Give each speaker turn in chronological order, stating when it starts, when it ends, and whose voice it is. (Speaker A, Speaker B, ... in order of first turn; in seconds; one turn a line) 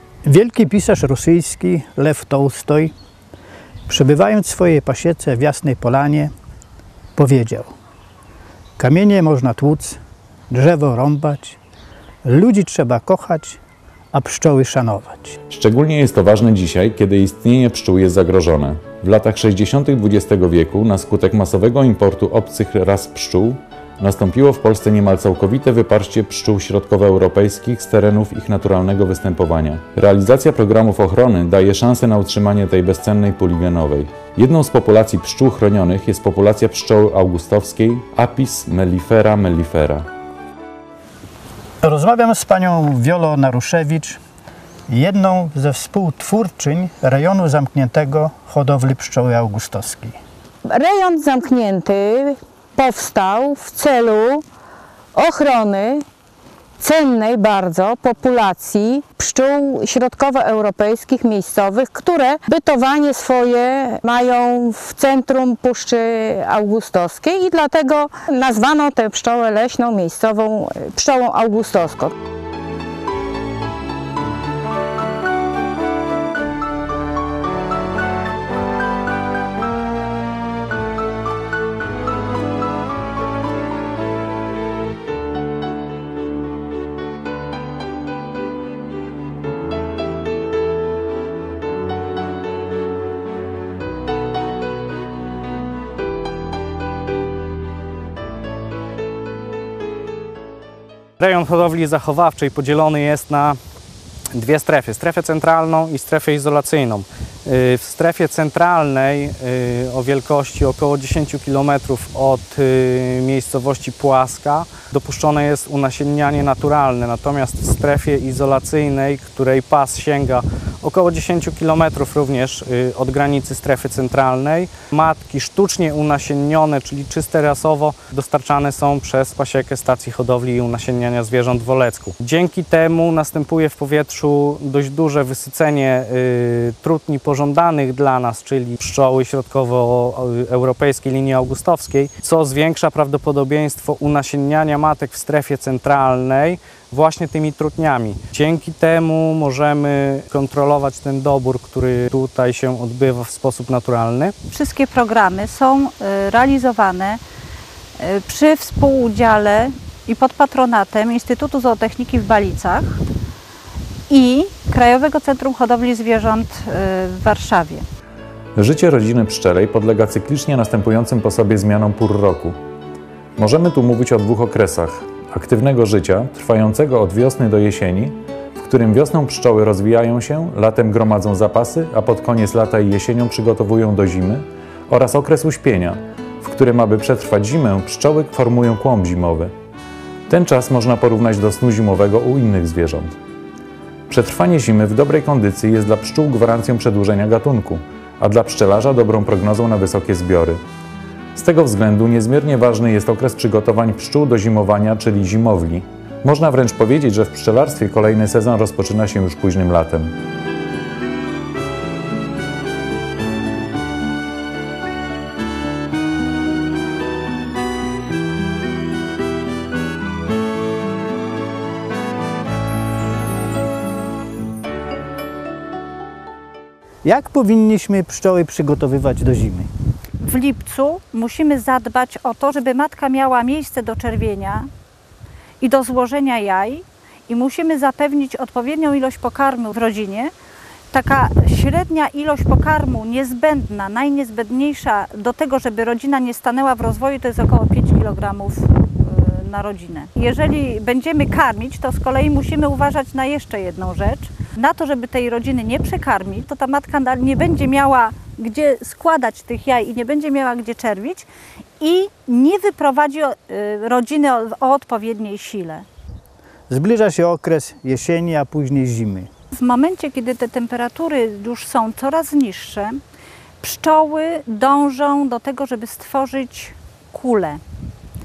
Speaker A: 0.2-2.9
Speaker A: 3.9-6.3
Speaker A: 7.2-7.7
Speaker A: 8.8-10.0
Speaker A: 10.5-11.6
Speaker A: 12.2-13.6
Speaker A: 14.1-15.4
Speaker B: 15.5-40.1
Speaker A: 41.8-44.2
Speaker A: 44.9-50.2
Speaker C: 50.7-54.4
Speaker C: 55.1-56.0
Speaker C: 56.8-72.2
Speaker D: 101.2-103.6
Speaker D: 104.3-154.3
Speaker E: 154.5-157.2
Speaker E: 158.0-163.0
Speaker E: 164.1-167.8
Speaker B: 168.6-172.6
Speaker B: 173.4-189.5
Speaker B: 190.3-193.2
Speaker B: 194.1-200.6
Speaker B: 201.3-210.1
Speaker A: 227.0-229.7
Speaker E: 230.2-234.7
Speaker E: 235.6-240.3
Speaker E: 240.9-261.3
Speaker E: 261.8-265.8
Speaker A: 266.7-269.3
Speaker E: 269.5-273.0
Speaker E: 273.6-277.6